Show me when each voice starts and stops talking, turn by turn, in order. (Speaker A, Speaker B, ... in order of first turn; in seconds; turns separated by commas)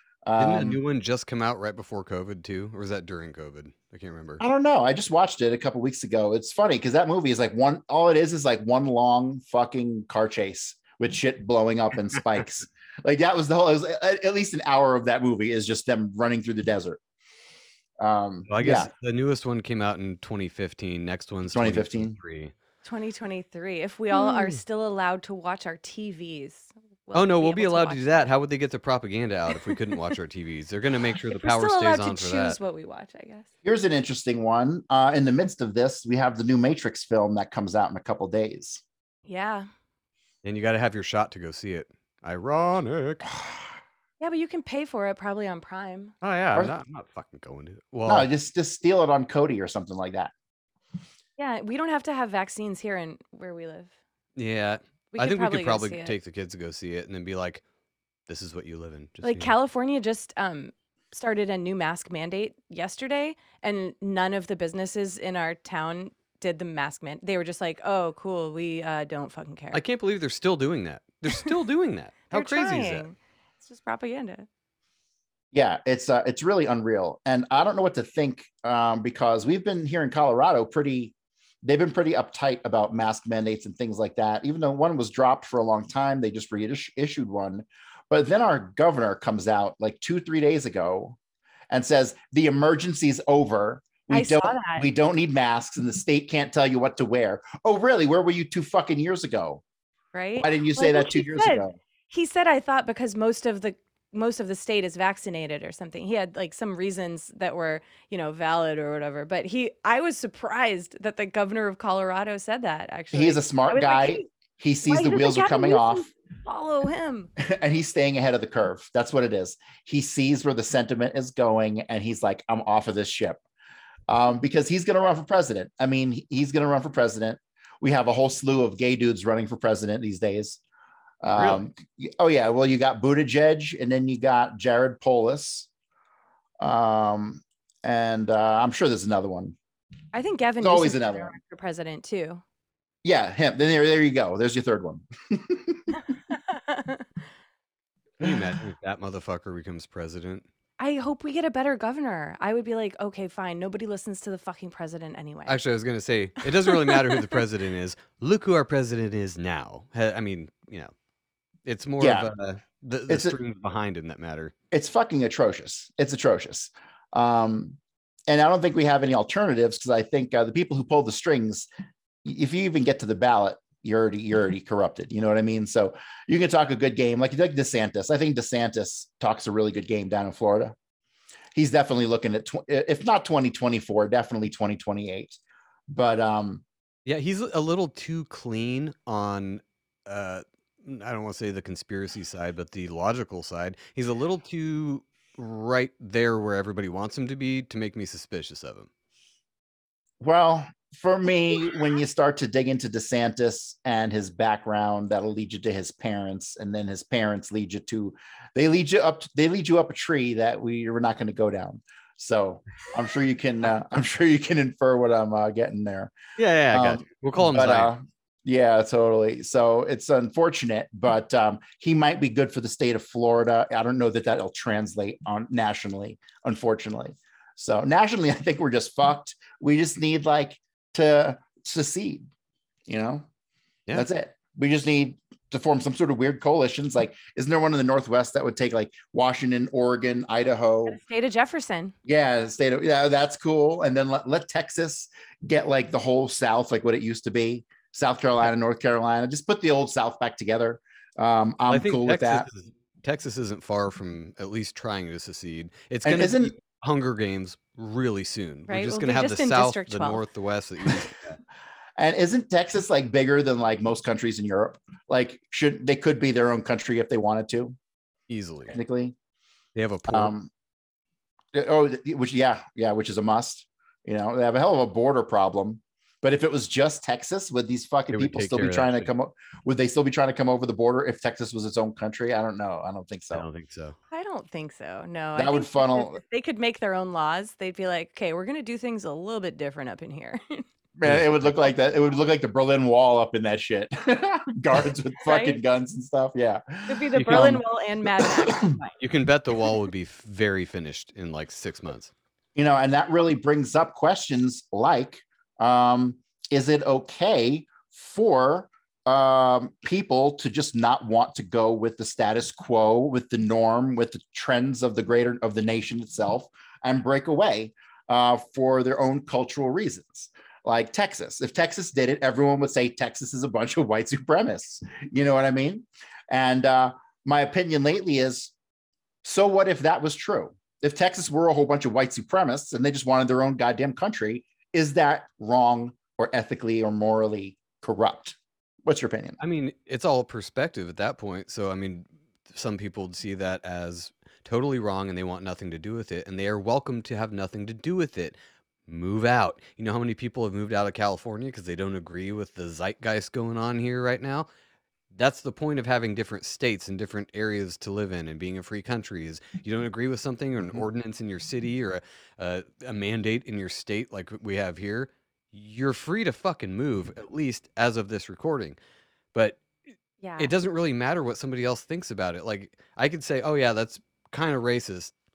Speaker A: 0.2-0.8, Speaker B: 0.4-4.4, Speaker A: 4.4-17.0, Speaker A: 18.0-18.9, Speaker B: 18.5-22.5, Speaker A: 21.5-22.2, Speaker C: 22.8-28.3, Speaker B: 27.1-32.6, Speaker C: 31.3-33.5, Speaker A: 33.6-38.8, Speaker C: 39.3-39.7, Speaker B: 40.4-43.3, Speaker A: 43.3-43.6, Speaker C: 44.2-46.1, Speaker B: 46.2-48.3, Speaker A: 48.1-50.3, Speaker C: 51.4-53.9, Speaker B: 54.4-57.6, Speaker C: 55.1-56.1, Speaker B: 58.3-59.5, Speaker C: 59.2-69.8, Speaker B: 69.7-73.1, Speaker C: 72.3-74.5, Speaker A: 75.5-91.2, Speaker A: 91.7-99.6, Speaker C: 94.1-94.9, Speaker C: 100.1-114.2, Speaker A: 100.4-101.8, Speaker A: 113.1-116.1, Speaker C: 114.9-117.3, Speaker A: 117.4-123.4, Speaker A: 124.1-130.6, Speaker A: 131.2-135.7, Speaker B: 131.3-131.6, Speaker A: 136.6-139.6, Speaker C: 140.1-142.4, Speaker A: 140.6-141.3, Speaker A: 143.0-145.9, Speaker C: 146.3-147.0, Speaker B: 148.2-150.4, Speaker C: 150.8-155.6, Speaker B: 155.5-160.9, Speaker C: 156.6-157.4, Speaker B: 161.7-164.5, Speaker A: 162.0-162.3, Speaker A: 163.1-163.4, Speaker A: 164.7-171.7, Speaker A: 172.2-180.7, Speaker A: 181.6-185.4, Speaker A: 185.9-186.6, Speaker B: 187.1-198.9, Speaker A: 200.2-216.1, Speaker B: 216.4-217.9, Speaker A: 216.7-232.2, Speaker A: 232.9-233.3, Speaker A: 233.9-241.0, Speaker C: 240.9-241.9, Speaker A: 242.1-252.5, Speaker B: 251.7-261.4, Speaker A: 256.1-256.5, Speaker C: 258.7-260.2, Speaker A: 262.0-267.8, Speaker B: 268.3-268.8, Speaker A: 268.7-269.1, Speaker B: 269.7-270.3, Speaker A: 270.1-270.5, Speaker A: 271.5-283.4, Speaker B: 278.1-279.1, Speaker B: 283.3-284.0, Speaker C: 284.1-290.6, Speaker A: 285.4-286.2, Speaker A: 290.9-298.7, Speaker B: 291.1-291.6, Speaker C: 295.2-295.6, Speaker C: 296.9-298.9, Speaker B: 297.1-297.6, Speaker B: 299.0-302.1, Speaker A: 302.6-328.5, Speaker A: 329.2-339.4, Speaker B: 339.4-348.3, Speaker B: 348.9-354.5, Speaker B: 355.1-368.8, Speaker B: 369.3-369.6, Speaker C: 370.2-370.5, Speaker B: 370.4-375.1